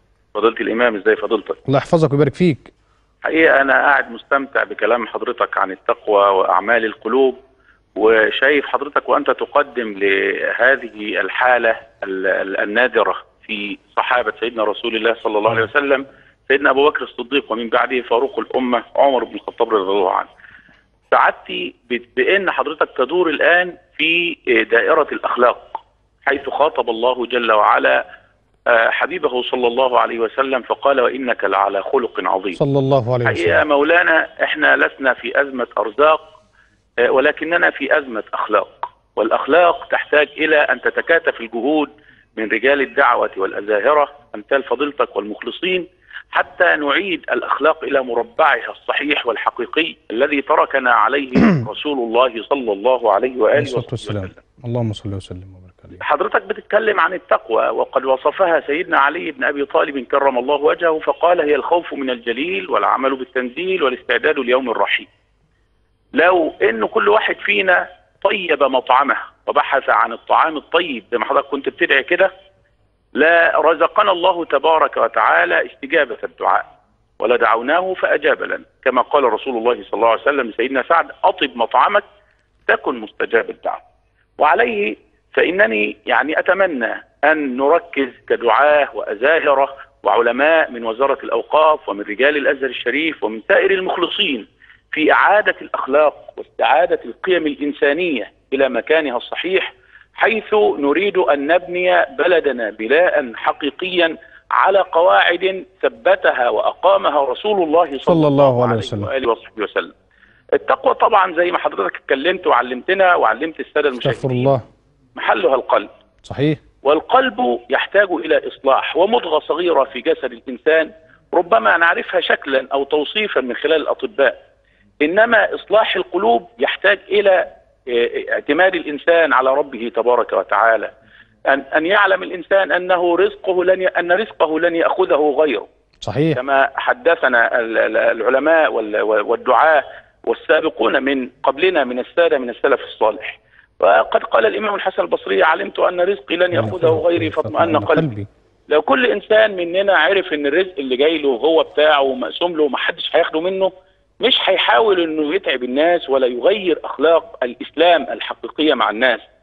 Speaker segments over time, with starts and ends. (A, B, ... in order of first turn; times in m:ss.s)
0:00.3-0:01.6 A
0:01.6-0:02.7 B
0:03.2-0:07.4 A
0:08.0-0:20.3 A
0:21.1-0:28.0 A
0:28.7-0:32.6 A
0:32.5-0:33.6 B
0:33.2-0:36.3 A
0:37.0-0:54.4 A
0:53.5-0:56.0 B
0:56.0-1:05.1 A
1:06.1-1:12.3 A
1:13.2-1:16.6 A
1:17.2-1:22.0 A
1:22.7-1:23.8 A
1:24.4-1:49.9 A
1:48.0-1:49.1 B
1:50.6-1:54.6 A
1:54.0-1:54.6 B
1:55.2-1:55.9 A
1:56.2-1:56.6 B
1:56.8-2:04.4 A
2:05.0-2:10.9 A
2:11.5-2:15.6 A
2:16.0-2:16.4 B
2:16.4-2:28.1 A
2:26.5-2:28.3 B
2:28.7-2:39.2 A